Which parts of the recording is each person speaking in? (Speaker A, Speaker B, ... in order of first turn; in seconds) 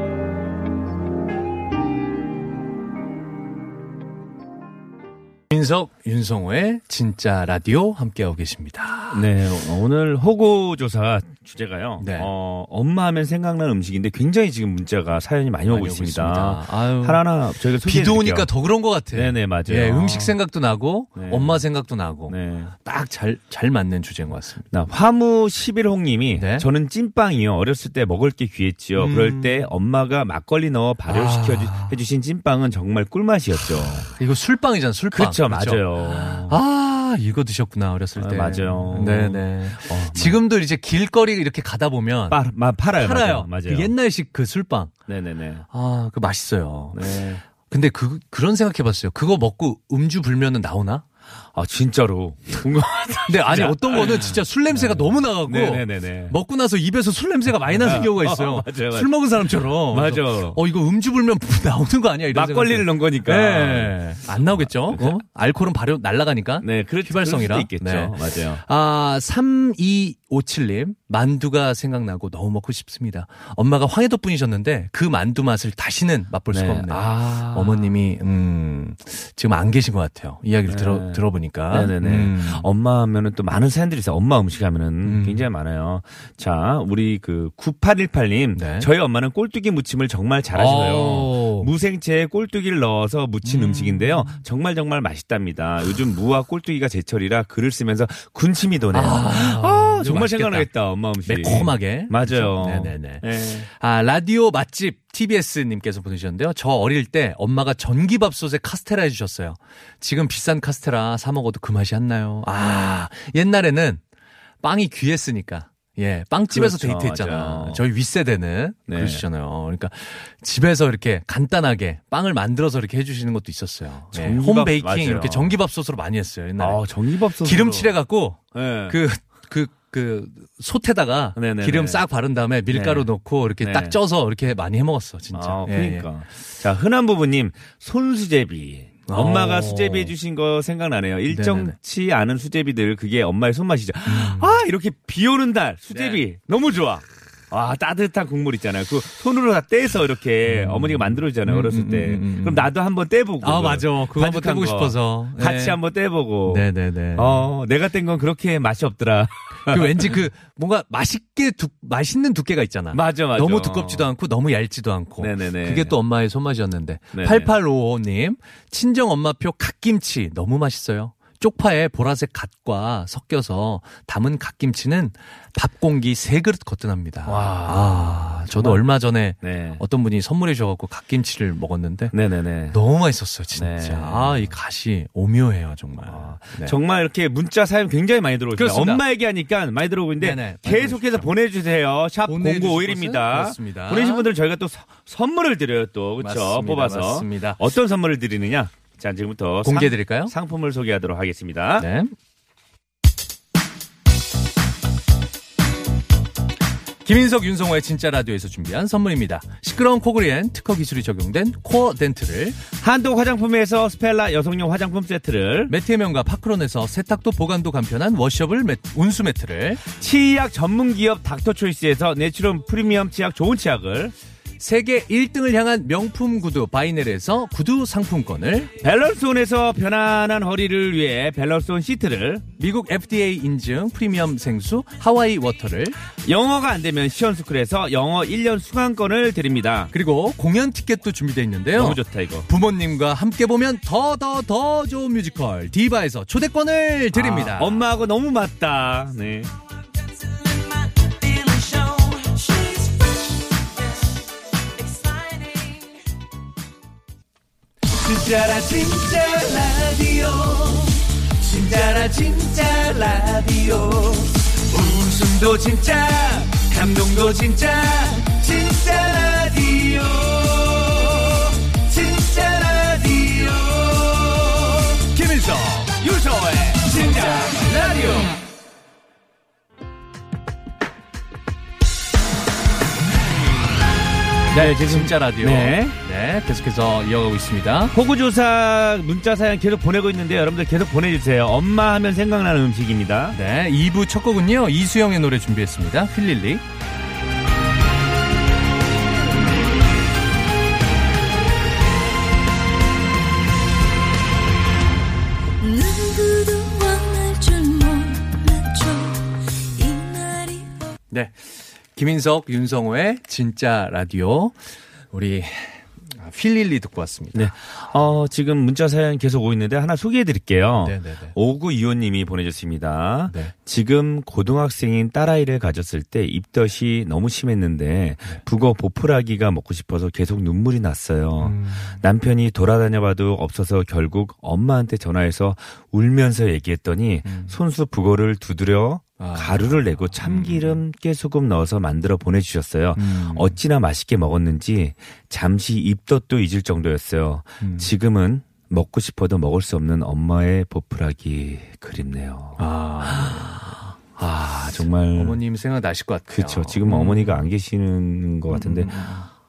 Speaker A: 5.5-9.3, 12.0-12.3, 15.7-17.2, 17.8-24.7, 26.4-26.7, 29.0-29.7, 31.1-32.0, 34.1-42.4, 43.0-44.9, 45.7-47.1, 47.6-51.0, 53.3-82.7, 85.0-85.5, 88.5-88.9, 90.5-91.7, 93.4-94.4, 98.9-100.7, 101.2-114.0, 114.6-126.8, 127.4-136.1, 139.1-140.1, 141.3-141.8, 144.1-144.6, 145.9-146.2, 150.5-152.7, 153.4-155.8, 156.4-157.5, 159.7-182.2, 182.7-186.8, 188.5-189.0, 190.2-191.3, 192.2-194.3, 196.2-197.6, 199.6-200.3, 201.8-202.1, 207.1-212.6, 215.7-219.8, 224.6-228.7, 232.6-236.0, 239.9-247.8, 275.1-276.0, 284.5-287.9, 293.3-296.6, 311.1-314.6, 315.1-317.5, 320.8-321.3, 323.3-323.5, 331.4-332.0, 337.2-337.6, 339.2-340.8, 342.9-343.6, 347.6-347.9, 352.6-353.9, 355.1-357.5, 358.5-359.3
Speaker B: 9.1-18.5, 19.1-20.4, 21.2-21.6, 22.3-22.7, 24.7-34.1, 35.1-36.6, 38.2-40.4, 42.3-43.9, 45.1-45.6, 46.9-47.4, 51.5-56.4, 57.7-60.6, 62.3-65.2, 66.6-68.6, 76.5-77.9, 80.7-103.7, 116.5-117.8, 118.9-119.2, 124.1-125.6, 126.6-127.9, 128.5-129.0, 131.4-132.1, 132.7-133.1, 133.6-134.0, 135.3-160.2, 162.9-164.1, 165.2-166.0, 167.1-167.5, 177.3-178.9, 179.4-179.8, 182.1-182.8, 183.5-184.5, 186.1-201.9, 212.7-215.7, 219.9-224.2, 228.8-232.5, 236.2-239.9, 241.8-242.5, 247.1-249.5, 251.0-253.1, 254.9-255.9, 257.9-275.1, 275.9-278.4, 284.5-286.0, 287.9-293.4, 317.3-353.6, 354.2-355.4, 356.3-359.0
Speaker C: 305.6-310.9